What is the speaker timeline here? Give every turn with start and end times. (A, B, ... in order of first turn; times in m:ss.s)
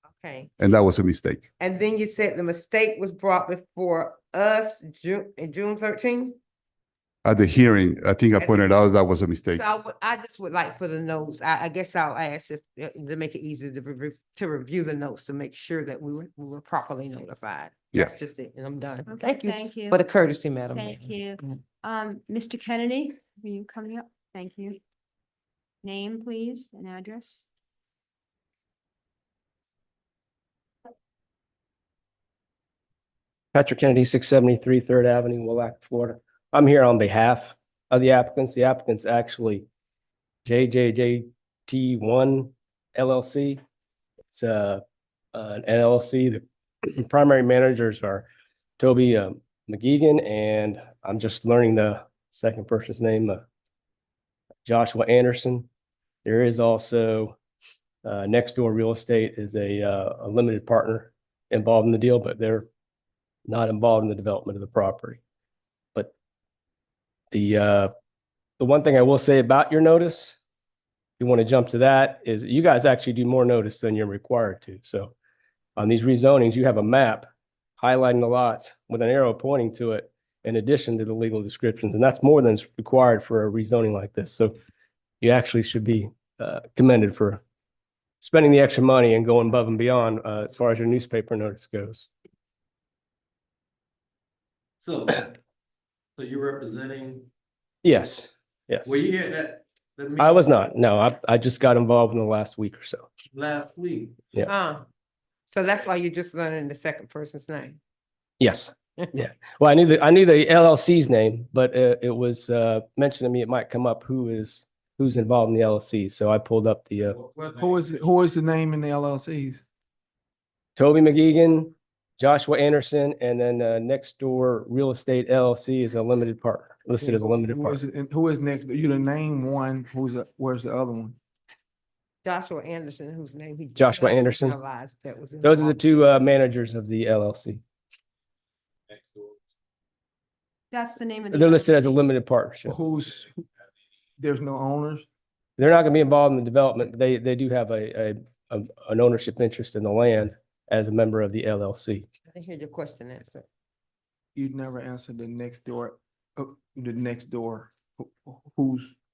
0:00.1-0:00.6 A
0:00.6-0:01.5 B
0:01.6-0:06.4 A
0:07.2-0:09.6 B
0:08.3-0:08.8 A
0:09.5-0:21.6 A
0:19.1-0:20.0 C
0:20.7-0:24.8 C
0:25.8-0:27.5 C
0:33.5-0:39.6 D
0:40.4-0:43.6 D
0:44.3-0:44.8 D
0:45.3-0:48.2 D
0:48.8-0:53.4 D
0:54.6-0:55.7 D
0:56.2-0:57.4 D
0:58.0-1:02.6 D
1:03.4-1:05.2 D
1:07.3-1:07.9 D
1:08.6-1:10.4 D
1:11.2-1:15.1 D
1:15.8-1:17.2 D
1:17.8-1:24.5 D
1:25.2-1:27.4 D
1:28.2-1:32.1 D
1:34.8-1:35.4 E
1:36.2-1:37.3 E
1:37.8-1:39.0 D
1:38.8-1:40.4 E
1:40.2-1:43.1 D
1:43.3-1:44.2 E
1:44.4-1:44.9 A
1:45.5-1:47.8 A
1:48.4-1:57.2 D
1:57.2-1:58.0 E
1:57.5-1:59.6 F
2:00.8-2:07.8 D
2:07.0-2:11.2 F
2:12.2-2:16.2 A
2:13.8-2:14.5 D
2:15.4-2:17.6 D
2:20.7-2:22.0 C
2:21.3-2:22.8 D
2:22.6-2:23.4 F
2:24.2-2:25.1 F
2:25.6-2:32.0 D
2:32.3-2:33.5 A
2:34.3-2:38.9 F